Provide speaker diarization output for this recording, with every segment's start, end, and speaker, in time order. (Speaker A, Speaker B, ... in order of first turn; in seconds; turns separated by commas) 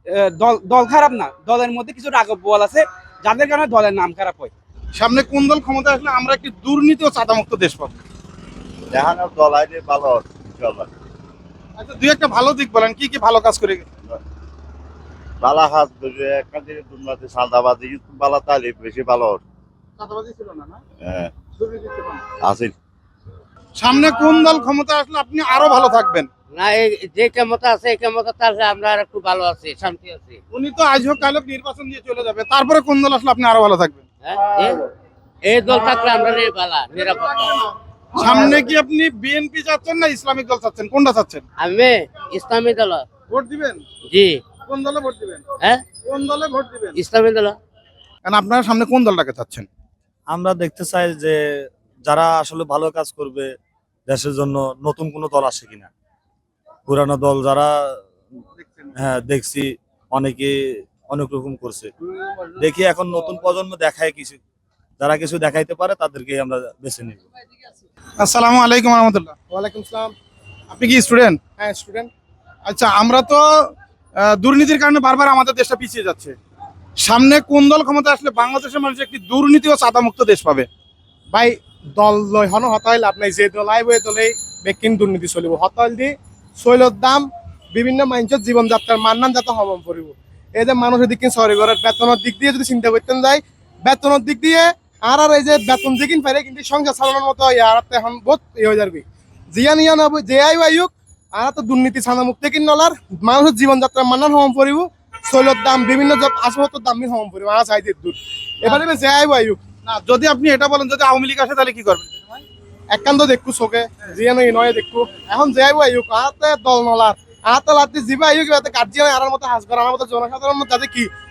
Speaker A: 0.4-4.5, Speaker B: 5.0-8.0, Speaker C: 8.9-10.9, Speaker B: 11.8-13.9, Speaker C: 15.4-19.4, Speaker B: 20.0-20.8, Speaker C: 21.0-21.3, Speaker B: 21.6-22.2, Speaker C: 22.4-22.7, Speaker B: 23.8-26.3, Speaker D: 26.5-30.4, Speaker B: 30.5-34.0, Speaker D: 34.2-34.9, Speaker D: 35.4-37.7, Speaker B: 38.2-41.4, Speaker D: 38.2-38.6, Speaker D: 41.6-43.0, Speaker B: 43.3-43.8, Speaker D: 44.1-44.4, Speaker B: 44.7-45.4, Speaker B: 46.0-47.0, Speaker D: 47.0-47.6, Speaker B: 48.2-49.7, Speaker E: 50.3-53.5, Speaker E: 54.1-55.9, Speaker E: 56.9-58.1, Speaker E: 59.0-61.9, Speaker E: 62.6-64.4, Speaker E: 65.0-67.2, Speaker B: 68.2-69.3, Speaker F: 69.5-70.1, Speaker B: 70.7-71.4, Speaker F: 71.6-72.1, Speaker B: 72.7-76.4, Speaker B: 77.0-80.7, Speaker F: 81.3-109.6, Speaker B: 109.8-112.4, Speaker F: 112.9-121.1